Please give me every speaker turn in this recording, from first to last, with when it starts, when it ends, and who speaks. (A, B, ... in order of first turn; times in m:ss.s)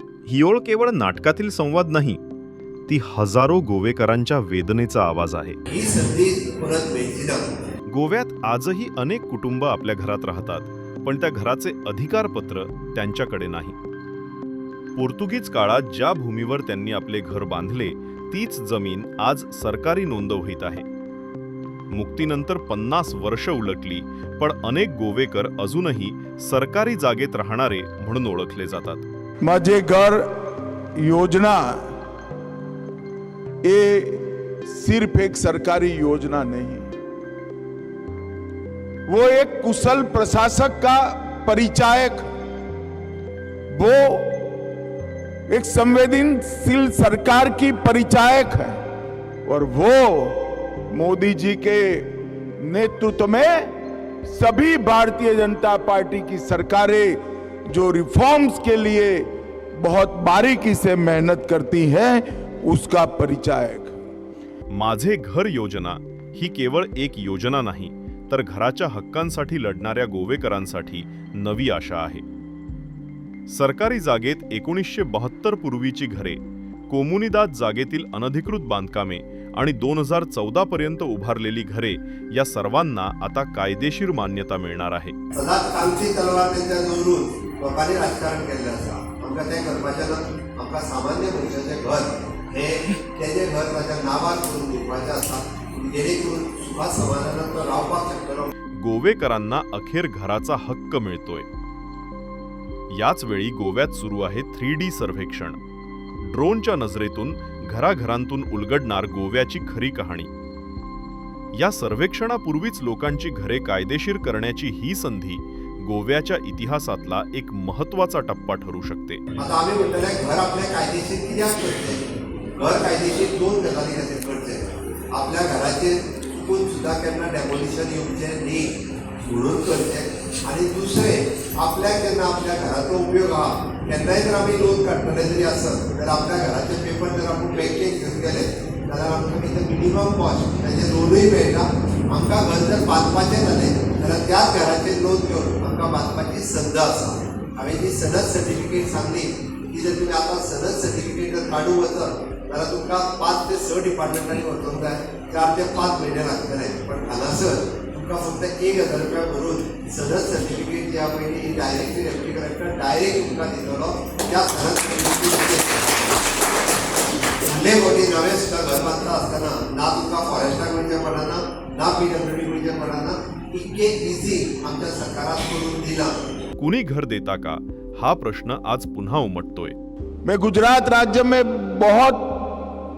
0:00.2-0:02.2 A
0:02.9-0:05.6 A
0:05.7-0:07.5 B
0:07.9-0:13.8 A
0:15.0-0:20.9 A
0:21.9-0:29.1 A
0:29.4-0:30.3 C
0:31.0-0:31.9 C
0:33.6-0:36.9 C
0:39.1-0:42.2 C
0:43.7-0:44.5 C
0:45.5-0:48.8 C
0:49.5-0:53.7 C
0:54.3-1:03.9 C
1:04.7-1:12.2 A
1:13.5-1:25.2 A
1:25.3-1:38.5 B
1:38.8-1:41.5 A
1:42.9-1:45.6 A
1:46.2-1:50.3 A
1:51.6-1:59.2 A
1:59.4-2:46.1 B
2:47.4-2:56.2 B
2:56.6-2:59.8 A
3:00.2-3:02.7 C